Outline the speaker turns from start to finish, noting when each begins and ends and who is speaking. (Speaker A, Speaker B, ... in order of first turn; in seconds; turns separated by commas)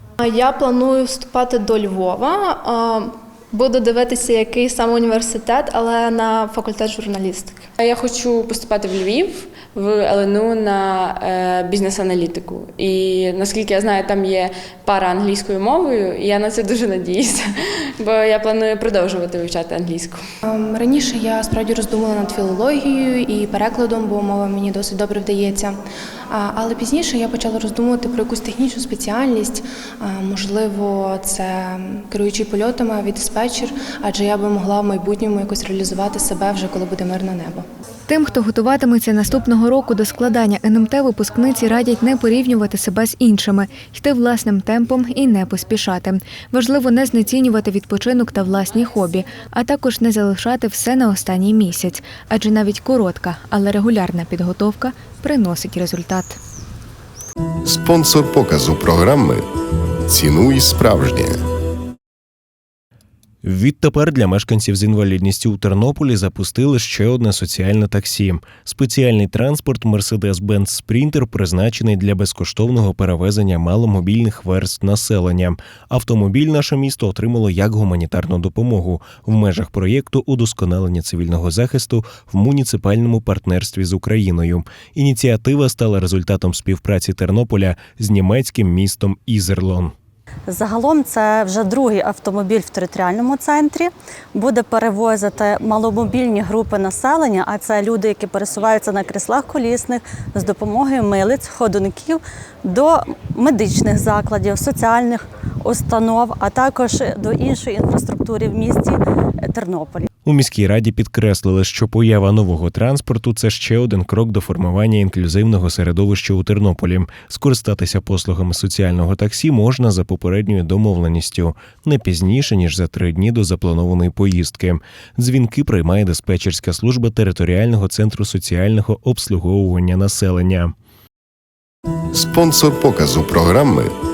Speaker A: 0.2-7.6, Speaker B: 7.8-17.4, Speaker B: 18.0-20.2, Speaker C: 20.4-25.8, Speaker C: 26.3-37.6, Speaker D: 38.1-56.4, Speaker E: 57.6-59.4, Speaker E: 60.1-61.4, Speaker F: 63.4-89.9, Speaker G: 90.5-110.1, Speaker F: 110.2-130.7, Speaker E: 132.1-133.9